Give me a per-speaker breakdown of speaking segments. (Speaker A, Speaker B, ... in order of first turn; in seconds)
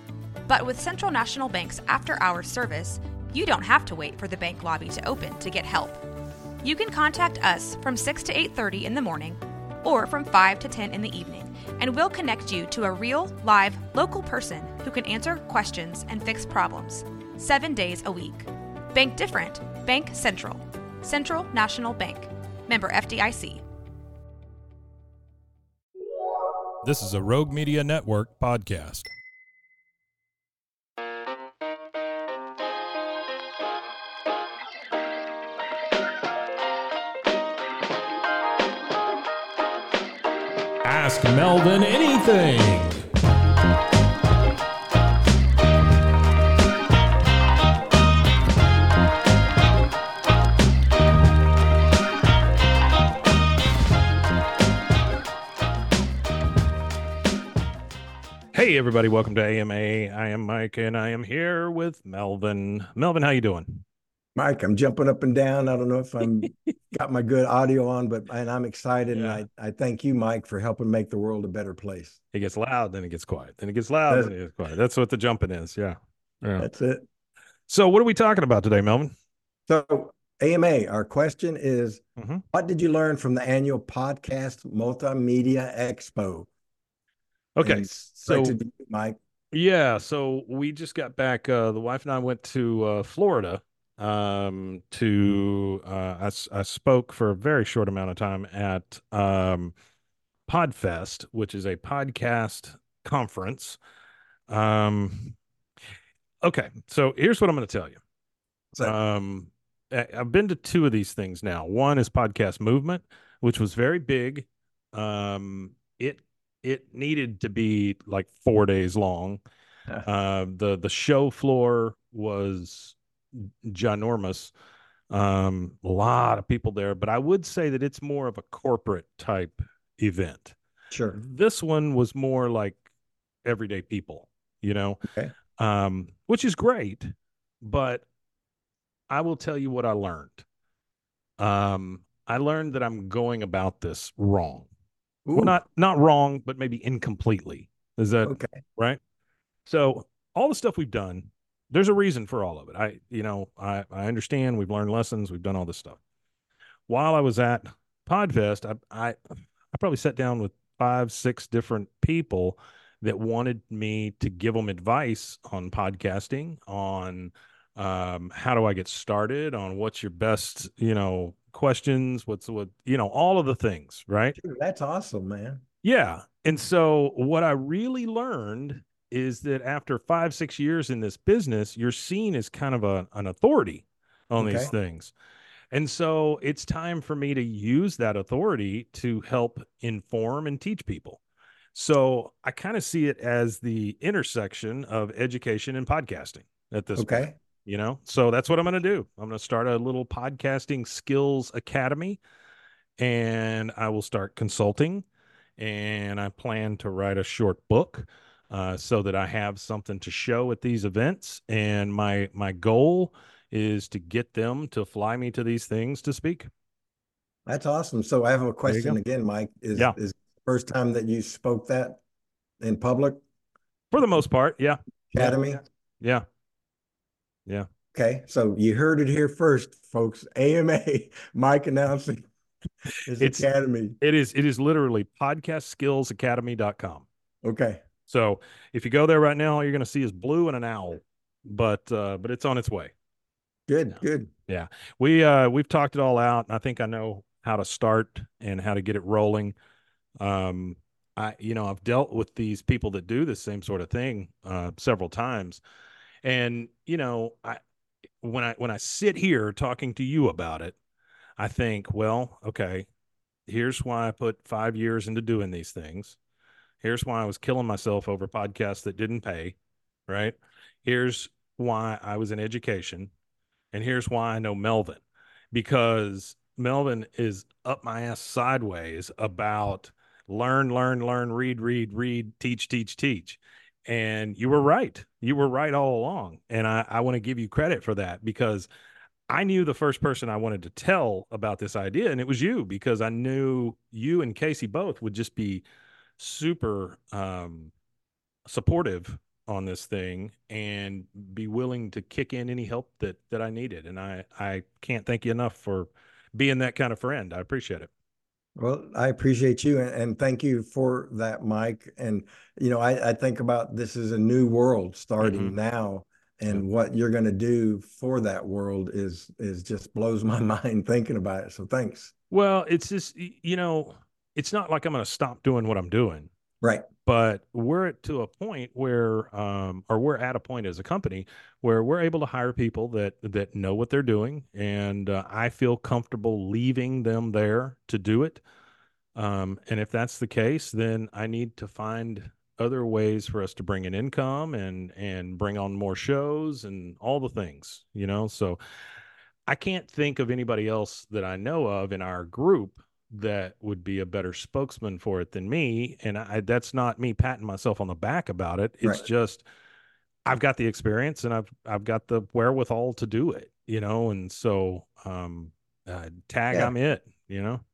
Speaker A: 0.5-6.0, 6.6-23.6
Speaker B: 26.8-29.1, 40.8-43.0, 58.5-63.8, 69.1-69.4, 72.3-76.7, 77.7-79.1, 82.2-82.4, 87.5-88.6, 89.5-99.7, 100.5-103.8, 104.5-105.4, 106.4-108.0, 108.8-119.4, 120.0-124.5, 125.1-130.6, 131.1-132.8, 133.4-135.0, 135.6-137.1, 137.6-138.1, 139.1-140.4, 141.4-144.7, 145.3-149.0, 149.7-156.0, 156.9-159.2, 159.7-174.3, 175.8-185.1, 185.7-191.2, 191.7-202.2, 203.0-205.1, 205.6-216.5, 218.7-219.0, 223.9-225.4, 233.2-233.5, 234.0-237.1, 238.1-242.9, 244.5-249.6, 250.2-255.6, 256.2-257.6, 258.2-260.8, 261.4-262.9, 263.5-266.2, 266.8-269.6, 270.1-273.1, 273.7-288.7, 289.3-295.6, 296.2-297.7, 298.4-307.9, 315.2-315.6, 322.3-326.3, 327.1-338.4, 339.1-348.6, 349.5-359.4, 360.2-367.6
Speaker C: 64.3-72.2, 74.1-74.3, 76.6-77.0, 79.7-82.0, 82.5-86.5, 87.6-89.2, 130.9-131.2, 135.0-135.3, 145.2-145.6, 148.2-148.6, 174.3-175.6, 184.4-184.7, 196.9-197.4, 217.4-222.0, 222.6-223.2, 225.1-225.6, 227.9-232.3, 233.0-234.0, 237.4-237.8, 243.7-244.3, 308.6-322.1